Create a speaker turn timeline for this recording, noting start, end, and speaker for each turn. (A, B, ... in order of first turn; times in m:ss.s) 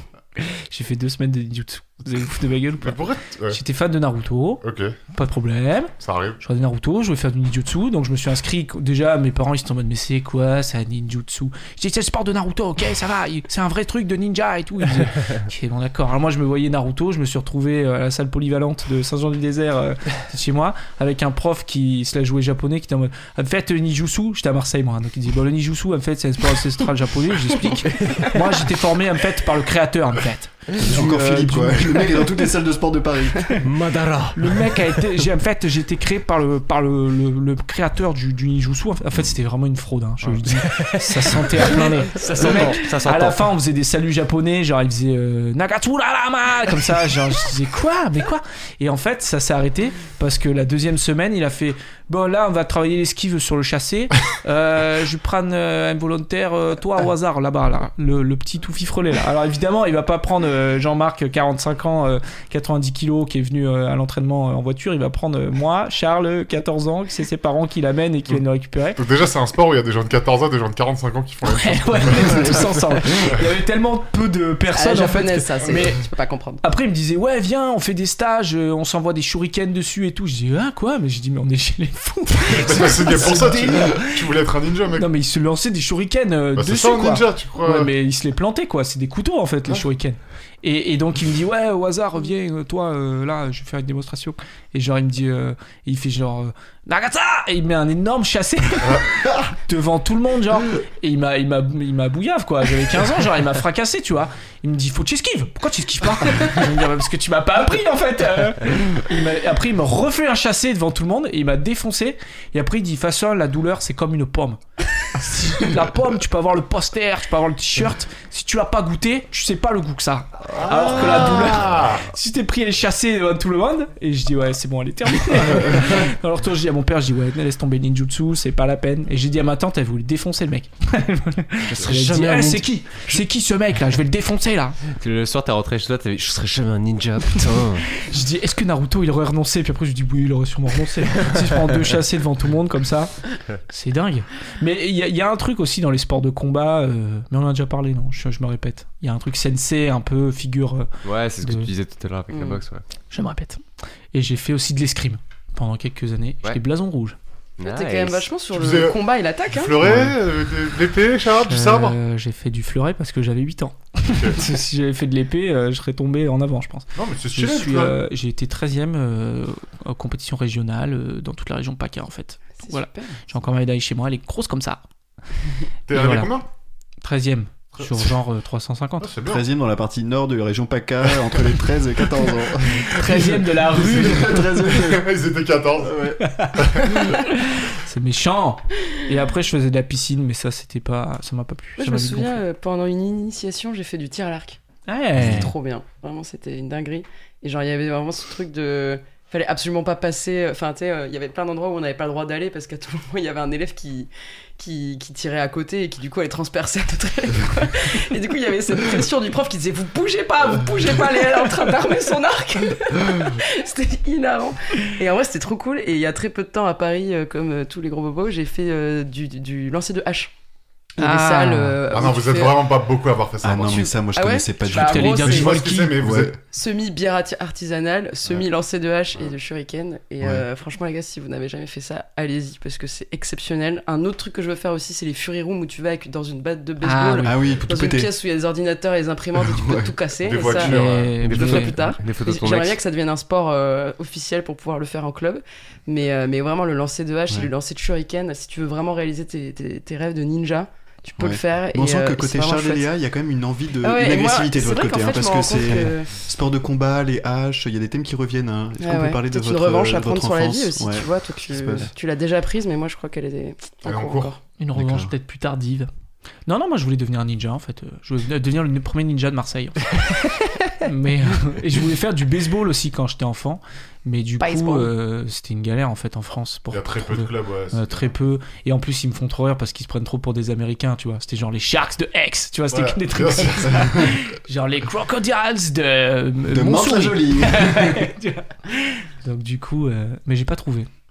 0:00.4-0:04.6 A
0:02.8-0:03.6 B
0:04.6-0:05.0 B
0:05.1-0:32.2 A
0:06.0-0:06.4 B
0:28.0-0:28.3 C
0:30.8-0:33.6 D
0:33.6-0:35.0 C
0:34.3-1:09.0 A
0:40.4-0:43.5 C
1:09.0-1:13.4 B
1:11.4-1:16.0 A
1:14.7-1:16.6 E
1:16.6-1:24.3 A
1:22.5-1:25.1 B
1:25.0-2:14.8 A
1:26.6-1:27.9 B
1:38.8-1:39.1 B
2:00.5-2:02.1 B
2:11.7-2:13.2 C
2:14.9-2:17.9 C
2:18.0-2:30.9 A
2:31.0-2:32.8 C
2:31.4-2:31.7 A
2:32.3-2:32.6 E
2:33.1-2:37.2 A
2:37.6-2:38.3 C
2:37.6-2:39.9 E
2:38.5-2:42.0 B
2:41.5-2:54.8 A
2:44.1-2:44.4 B
2:47.0-2:48.0 B
2:52.6-2:53.3 E
2:55.9-2:56.5 B
2:55.9-2:56.3 A
2:57.0-2:59.1 A
2:57.8-2:58.1 B
2:59.0-2:59.4 B
2:59.2-3:05.1 D
3:02.8-3:04.6 A
3:04.2-3:06.0 B
3:05.8-3:06.2 D
3:06.2-3:12.4 A
3:06.6-3:07.2 B
3:11.8-3:14.6 E
3:14.9-3:15.5 A
3:15.2-3:15.5 D
3:15.2-3:40.3 E
3:41.0-3:42.7 E
3:41.0-3:41.8 A
3:41.9-3:44.0 B
3:43.4-3:45.2 D
3:43.7-3:45.6 E
3:44.6-3:46.0 A
3:45.2-3:46.4 B
3:45.9-3:46.4 D
3:46.5-4:12.9 E
3:50.2-3:50.5 D
3:56.8-3:57.4 A
3:57.2-3:58.1 D
3:59.4-3:59.9 D
4:00.2-4:01.2 B
4:00.5-4:01.8 A
4:01.2-4:02.8 C
4:11.2-4:21.9 D
4:13.8-4:16.1 E
4:18.8-4:24.4 E
4:23.8-4:24.4 B
4:24.6-4:25.9 A
4:24.8-4:25.1 D
4:26.5-4:30.2 A
4:30.8-4:50.9 A
4:34.4-4:34.9 E
4:36.7-4:38.1 B
4:42.7-4:44.2 B
4:46.5-4:48.1 D